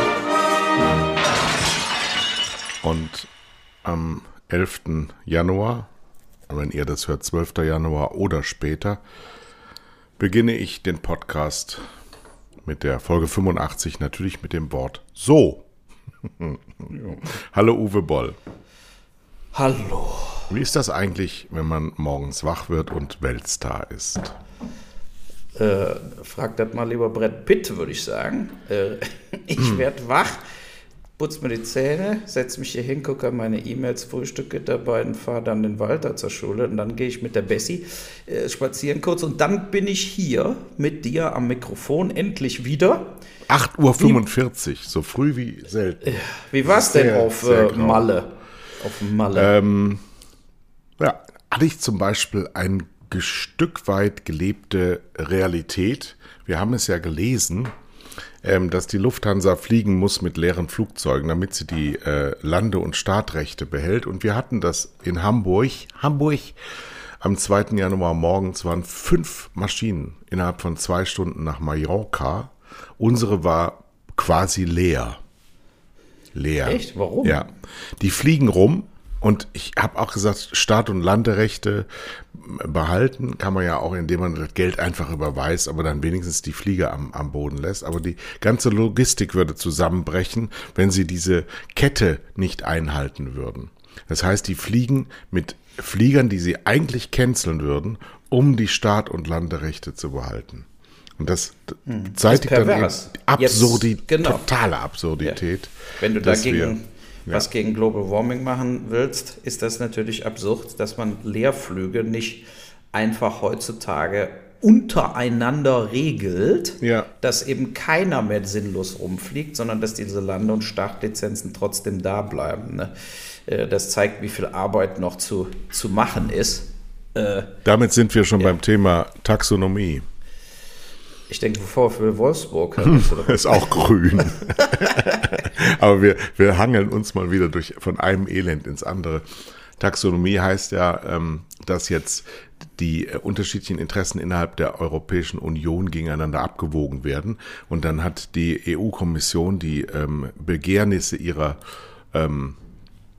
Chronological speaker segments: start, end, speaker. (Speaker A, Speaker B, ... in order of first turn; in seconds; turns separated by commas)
Speaker A: 2.8-3.3, Speaker A: 3.8-5.9, Speaker A: 6.5-9.0, Speaker A: 10.2-11.8, Speaker A: 12.6-15.7, Speaker A: 16.2-18.4, Speaker B: 16.9-17.2, Speaker B: 19.5-20.5, Speaker A: 20.5-24.4, Speaker B: 25.6-30.4, Speaker B: 31.2-43.1, Speaker A: 43.5-48.1, Speaker B: 46.0-49.5, Speaker A: 49.3-50.0, Speaker A: 51.0-57.7, Speaker A: 58.4-66.5, Speaker A: 67.2-75.2, Speaker A: 76.3-100.7, Speaker B: 76.6-77.5, Speaker A: 101.2-106.7, Speaker B: 101.9-104.4, Speaker B: 106.0-122.9, Speaker A: 116.8-117.1, Speaker B: 123.5-127.5, Speaker A: 127.6-130.0, Speaker B: 131.3-133.9, Speaker A: 132.9-139.2, Speaker B: 134.8-135.1, Speaker A: 139.8-151.6, Speaker A: 152.1-152.6